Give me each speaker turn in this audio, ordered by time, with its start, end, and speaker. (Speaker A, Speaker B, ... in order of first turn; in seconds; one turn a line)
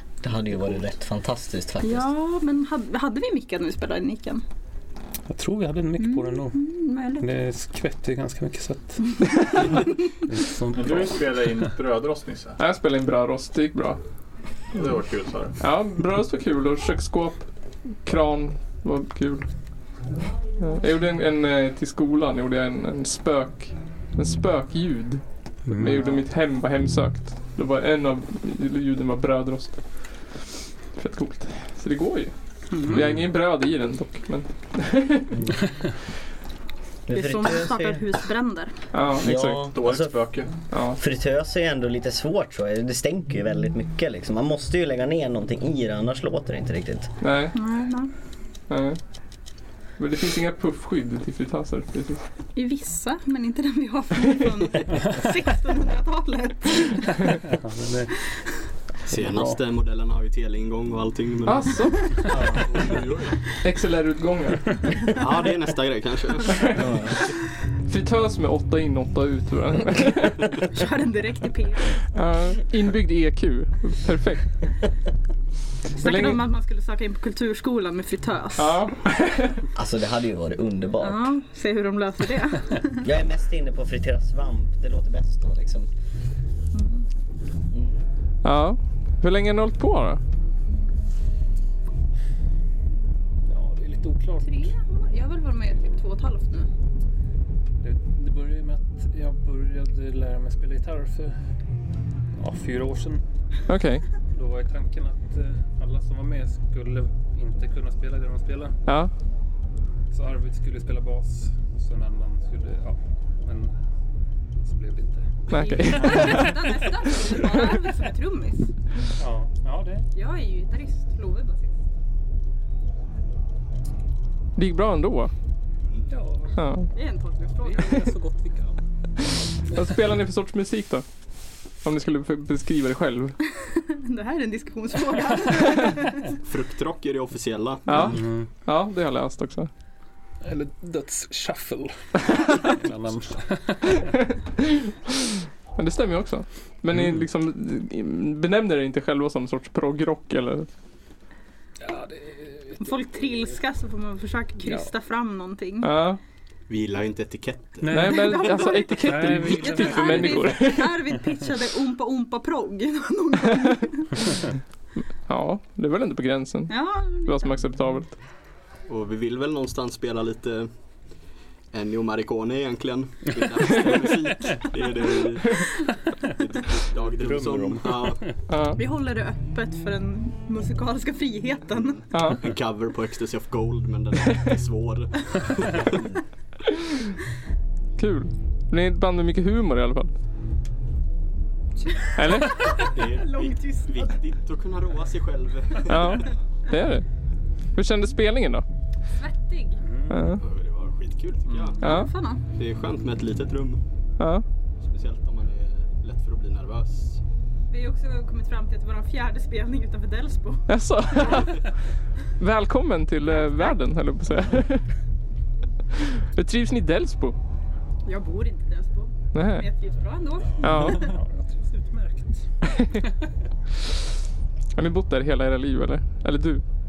Speaker A: 0.2-2.1
Speaker B: 1.8-4.4
Speaker C: 5.3-6.6
Speaker B: 6.0-7.3
Speaker C: 7.2-11.7
Speaker D: 10.7-12.6
Speaker E: 12.6-14.0
Speaker D: 14.7-15.5
Speaker E: 15.6-19.5
Speaker E: 20.6-30.3
Speaker C: 25.6-26.2
Speaker E: 30.9-35.4
Speaker C: 32.8-33.2
Speaker A: 37.1-38.0
Speaker B: 37.1-38.7
Speaker E: 38.9-39.6
Speaker A: 39.2-40.2
Speaker D: 39.7-40.5
Speaker E: 40.7-41.0
Speaker A: 40.9-47.1
Speaker E: 47.2-47.6
Speaker B: 47.5-48.1
Speaker E: 48.7-49.0
Speaker E: 50.0-52.2
Speaker B: 52.6-57.4
Speaker C: 57.4-58.1
Speaker B: 58.3-58.6
Speaker F: 59.0-63.3
Speaker C: 59.1-59.6
Speaker E: 61.5-62.3
Speaker D: 62.3-63.2
Speaker E: 63.6-65.1
Speaker F: 65.2-66.6
Speaker E: 66.5-67.2
Speaker A: 66.8-67.2
Speaker E: 67.8-70.5
Speaker B: 70.7-72.0
Speaker E: 72.1-74.5
Speaker B: 76.0-78.8
Speaker E: 76.0-76.4
Speaker E: 78.6-79.6
Speaker A: 79.8-81.3
Speaker B: 81.0-83.0
Speaker A: 83.0-85.9
Speaker B: 86.7-87.1
Speaker A: 87.7-88.0
Speaker E: 88.4-90.2
Speaker C: 93.5-94.7
Speaker B: 94.4-96.7
Speaker C: 97.8-101.4
Speaker C: 102.3-103.2
Speaker E: 103.7-104.0
Speaker C: 104.3-108.8
Speaker C: 110.1-113.7
Speaker C: 114.6-116.6
Speaker E: 115.5-116.5
Speaker B: 115.5-118.7
Speaker C: 119.2-120.1
Speaker B: 120.1-121.8
Speaker E: 124.6-125.3
Speaker C: 126.1-126.6
Speaker E: 126.6-126.9
Speaker B: 126.9-128.1
Speaker C: 127.6-128.8
Speaker E: 129.7-131.1
Speaker E: 131.8-133.4
Speaker B: 133.6-136.3
Speaker F: 136.4-138.2
Speaker E: 137.9-139.7
Speaker C: 138.0-138.5
Speaker C: 140.4-144.1
Speaker E: 145.8-150.7
Speaker C: 151.8-153.5
Speaker B: 152.8-155.9
Speaker C: 154.6-154.9
Speaker E: 155.8-156.2
Speaker F: 156.7-158.0
Speaker C: 157.8-160.7
Speaker E: 157.9-160.9
Speaker B: 158.0-164.2
Speaker E: 165.2-168.2
Speaker B: 166.7-167.6
Speaker F: 168.9-170.7
Speaker F: 171.7-175.6
Speaker F: 176.3-178.3
Speaker C: 177.2-178.3
Speaker E: 178.5-178.8
Speaker B: 178.7-182.1
Speaker E: 182.1-182.4
Speaker F: 182.4-186.1
Speaker E: 188.0-190.1
Speaker B: 191.9-194.0
Speaker E: 192.1-192.8
Speaker F: 192.9-196.2
Speaker E: 195.9-197.1
Speaker E: 197.7-198.6
Speaker B: 199.1-199.8
Speaker C: 199.8-200.3
Speaker E: 200.1-200.4
Speaker F: 200.4-201.8
Speaker B: 201.8-202.4
Speaker E: 201.8-202.1
Speaker F: 202.4-203.8
Speaker E: 204.2-204.4
Speaker F: 204.8-207.2
Speaker B: 207.7-211.4
Speaker E: 210.7-211.7
Speaker E: 212.4-214.9
Speaker E: 216.2-217.4
Speaker B: 218.1-221.2
Speaker E: 219.3-219.7
Speaker C: 220.4-223.1
Speaker E: 220.6-221.1
Speaker E: 224.8-226.6